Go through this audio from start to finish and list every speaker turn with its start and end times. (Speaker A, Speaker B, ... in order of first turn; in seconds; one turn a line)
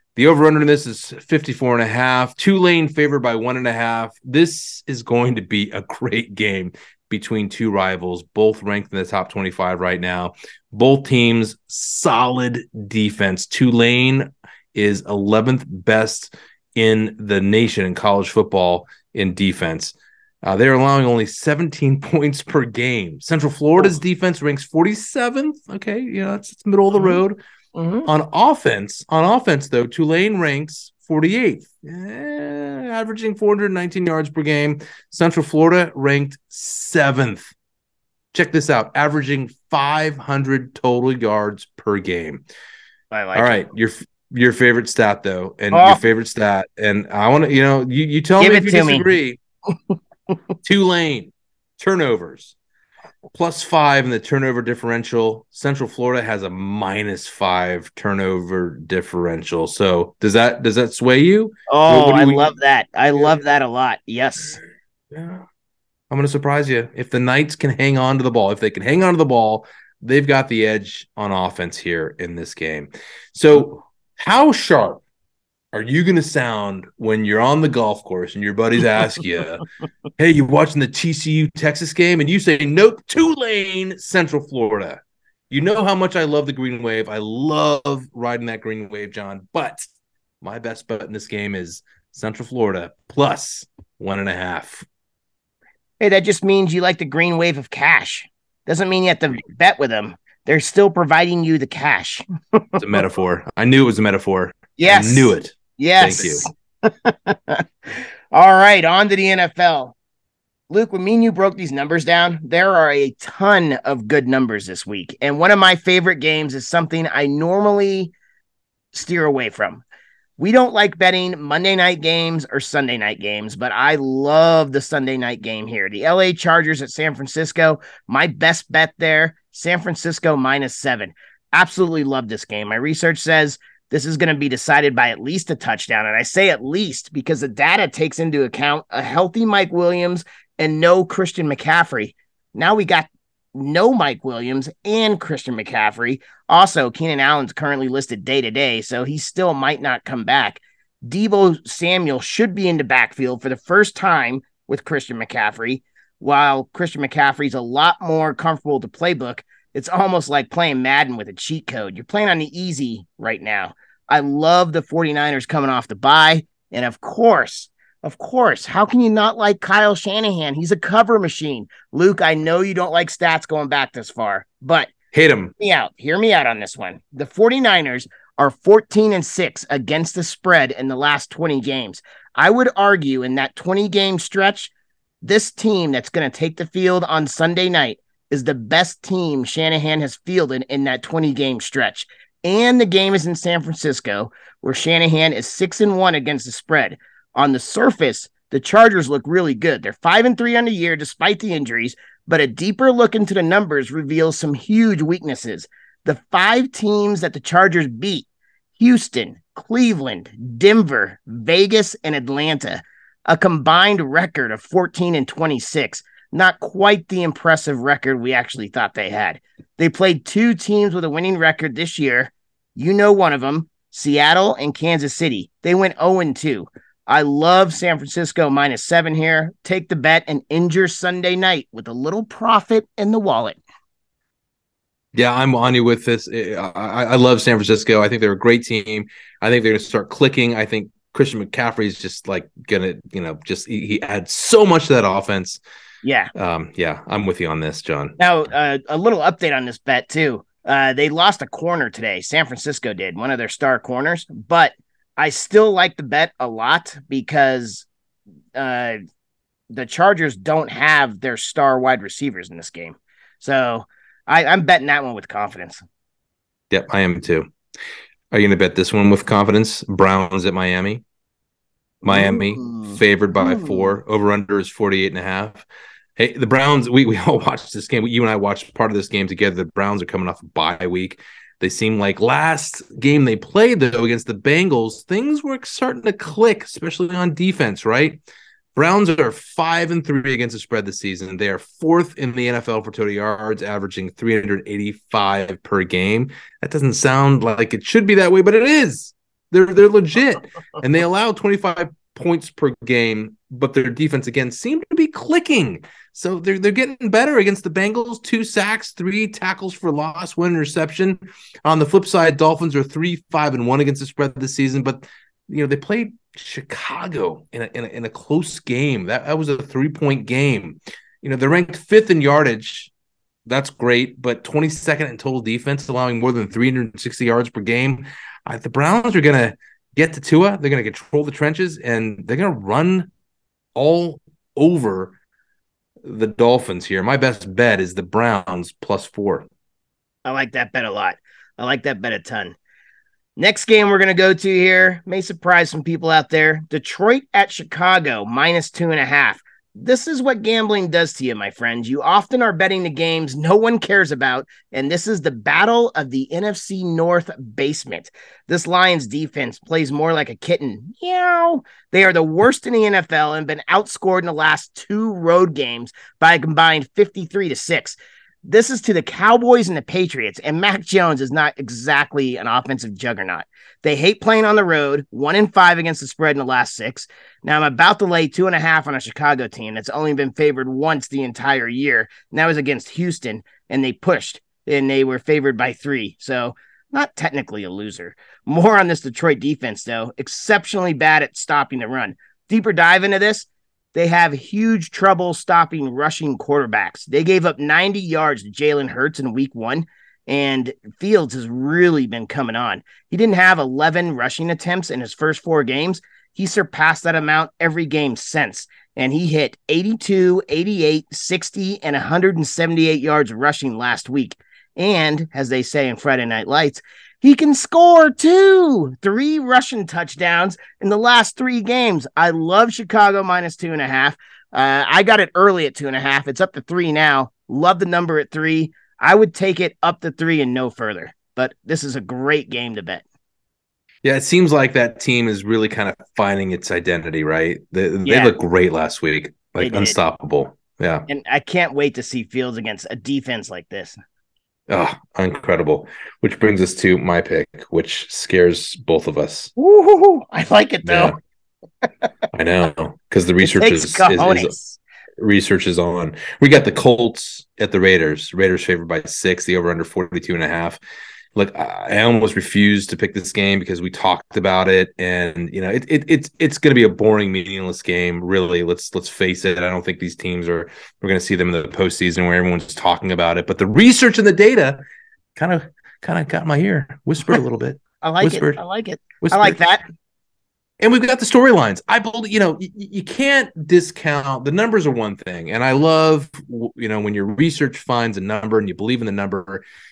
Speaker A: 0.1-27.4
Speaker B: 26.9-27.2
Speaker B: 27.7-28.1
Speaker A: 28.1-37.5
Speaker A: 38.3-42.4
Speaker B: 43.1-43.5
Speaker A: 43.3-49.4
Speaker B: 45.7-46.0
Speaker B: 48.4-49.1
Speaker A: 50.6-52.5
Speaker A: 53.3-62.5
Speaker B: 61.7-64.6
Speaker A: 63.1-63.4
Speaker A: 65.1-65.5
Speaker A: 66.1-75.0
Speaker A: 75.7-79.6
Speaker A: 80.2-89.9
Speaker A: 90.4-94.8
Speaker B: 96.0-102.8
Speaker A: 102.8-106.5
Speaker B: 104.8-109.9
Speaker B: 110.7-118.1
Speaker B: 118.9-119.8
Speaker B: 120.4-174.9
Speaker A: 175.1-175.5
Speaker B: 175.6-184.7
Speaker B: 185.2-233.6
Speaker A: 235.1-245.6
Speaker B: 246.0-246.3
Speaker A: 246.3-248.2
Speaker B: 248.2-257.9
Speaker B: 258.6-259.0
Speaker B: 259.7-265.8
Speaker A: 266.7-267.5
Speaker A: 268.3-271.0
Speaker A: 272.0-275.6
Speaker B: 272.0-273.9
Speaker A: 276.2-288.2
Speaker A: 288.7-322.9
Speaker A: 323.5-333.1
Speaker A: 333.8-335.1
Speaker A: 336.0-339.5
Speaker B: 340.2-342.6
Speaker B: 343.4-433.0
Speaker A: 434.0-441.1
Speaker B: 438.0-438.3
Speaker B: 439.6-440.0
Speaker B: 441.1-444.0
Speaker A: 444.7-449.5
Speaker B: 449.6-451.1
Speaker A: 450.8-451.1
Speaker A: 452.3-454.5
Speaker B: 453.4-454.8
Speaker A: 455.2-460.8
Speaker A: 461.3-474.8
Speaker A: 475.4-478.6
Speaker B: 478.0-479.8
Speaker A: 479.2-479.6
Speaker A: 480.8-489.6